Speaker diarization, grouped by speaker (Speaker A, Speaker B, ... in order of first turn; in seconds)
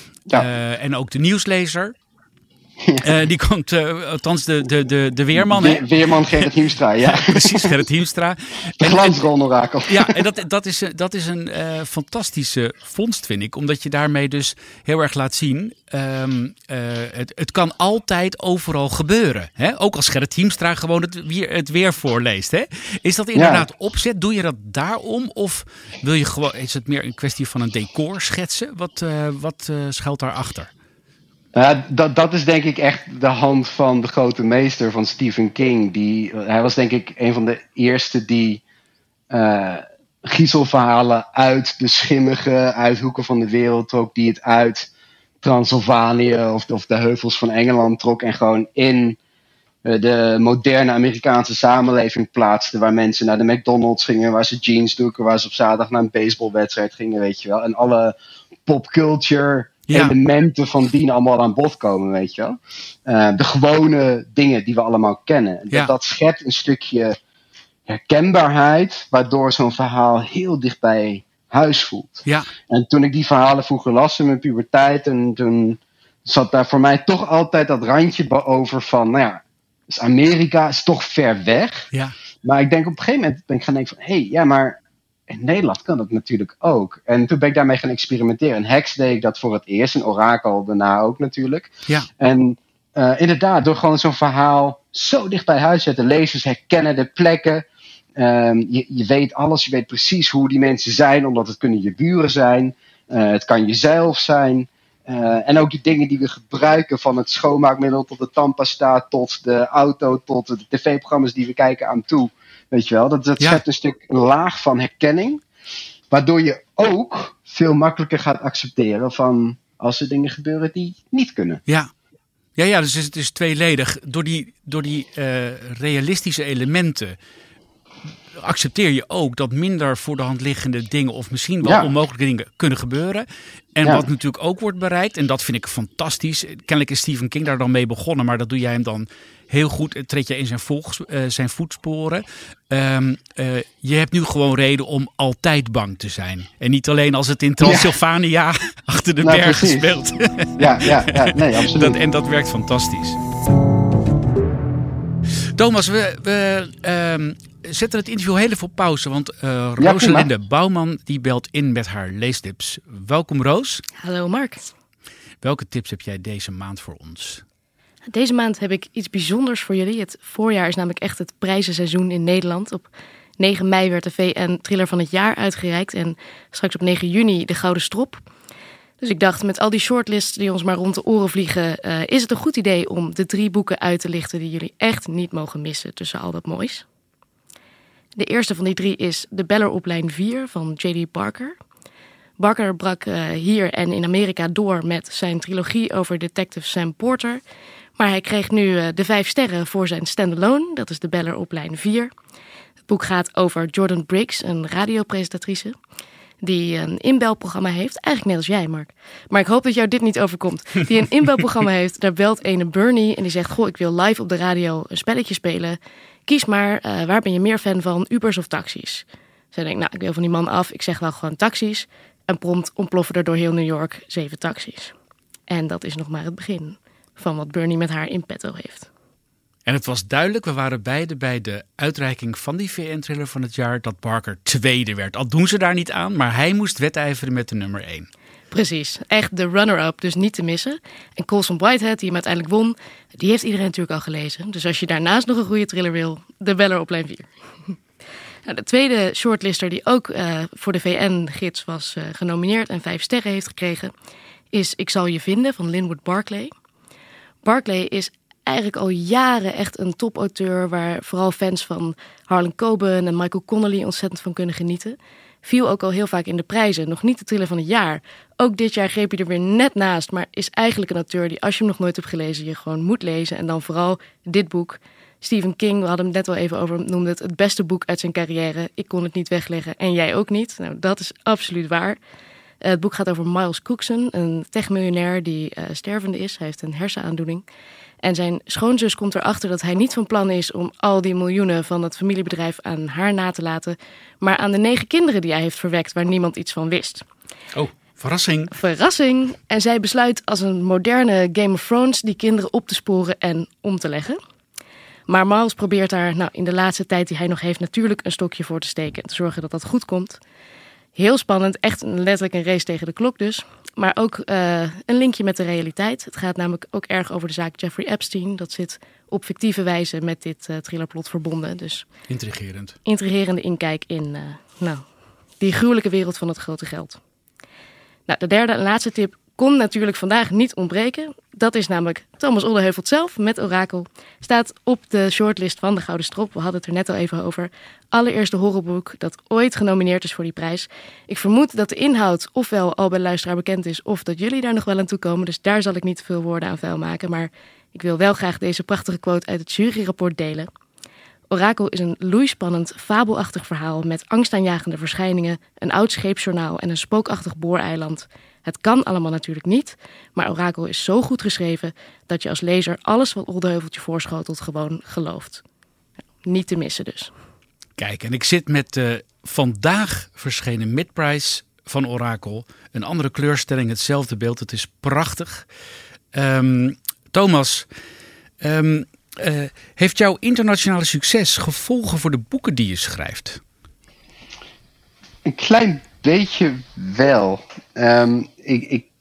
Speaker A: 0.3-1.9, 3.0-6.5, 7.0-9.1, 9.9-30.7, 59.9-60.1, 72.2-72.5, 122.6-127.2, 128.3-153.2, 155.5-163.8, 165.4-167.4, 229.7-238.1, 297.5-298.5, 322.1-322.8, 367.8-375.5, 376.1-377.7, 378.4-383.4
Speaker B: 2.8-3.1, 5.3-7.8, 8.8-10.2, 23.3-23.7, 31.5-38.6, 39.3-44.9, 45.4-49.2, 49.8-67.2, 67.9-81.9, 82.4-97.6, 98.2-115.4, 116.1-121.6, 131.6-131.9, 147.6-147.9, 149.2-149.9, 150.6-152.0, 159.8-160.3, 385.2-388.9
Speaker C: 164.0-164.7, 168.1-172.9, 173.4-178.2, 179.0-186.8, 188.2-191.5, 192.4-197.4, 198.0-202.1, 202.9-205.8, 206.4-224.9, 225.5-228.9, 238.5-247.7, 248.4-253.9, 254.5-256.5, 257.4-282.0, 282.6-287.4, 288.0-297.0, 298.5-304.2, 305.1-310.2, 310.9-321.9, 322.8-324.8, 325.4-327.0, 328.1-350.5, 351.3-365.4, 366.2-367.1